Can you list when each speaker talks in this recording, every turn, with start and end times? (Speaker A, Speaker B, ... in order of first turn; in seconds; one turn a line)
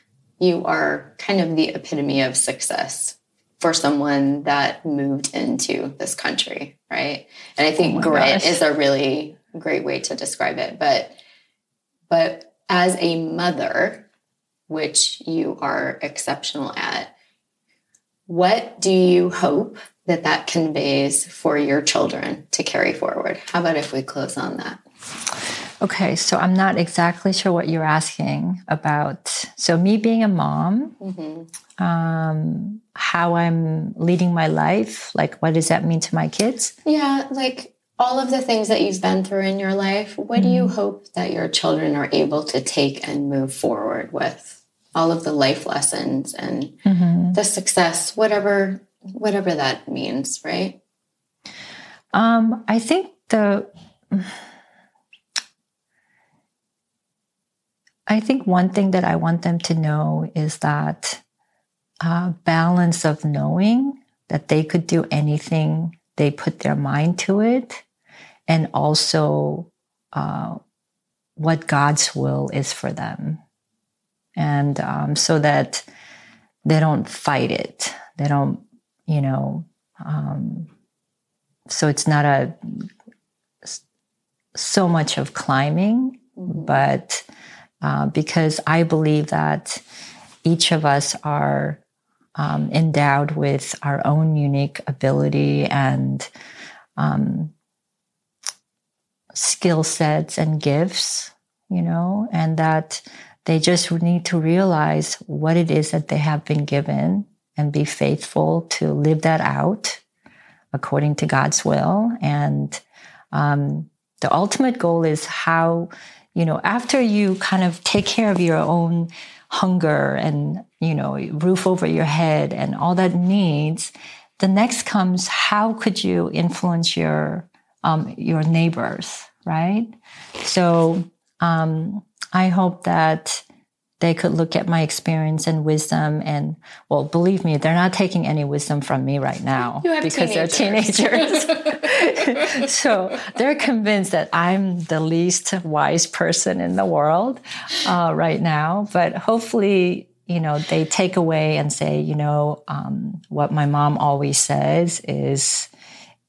Speaker A: 0.4-11.2
Speaker B: 7.8-8.6
Speaker A: 12.1-14.1
Speaker A: 14.7-17.1
Speaker A: 18.3-24.8
Speaker B: 25.8-30.9
Speaker A: 31.0-31.5
Speaker B: 31.8-36.7
Speaker A: 36.8-46.8
Speaker B: 40.4-40.7
Speaker B: 46.8-47.4
Speaker A: 47.3-50.8
Speaker B: 52.1-54.4
Speaker B: 58.1-61.2
Speaker B: 62.0-67.8
Speaker B: 68.5-70.6
Speaker B: 71.4-73.4
Speaker B: 74.3-75.8
Speaker B: 76.6-80.7
Speaker B: 81.7-82.9
Speaker B: 84.5-87.2
Speaker A: 86.4-86.8
Speaker B: 87.8-89.8
Speaker B: 90.4-91.8
Speaker B: 92.3-96.3
Speaker B: 97.0-97.5
Speaker B: 99.3-110.0
Speaker B: 110.7-133.4
Speaker B: 134.0-155.7
Speaker A: 139.8-141.8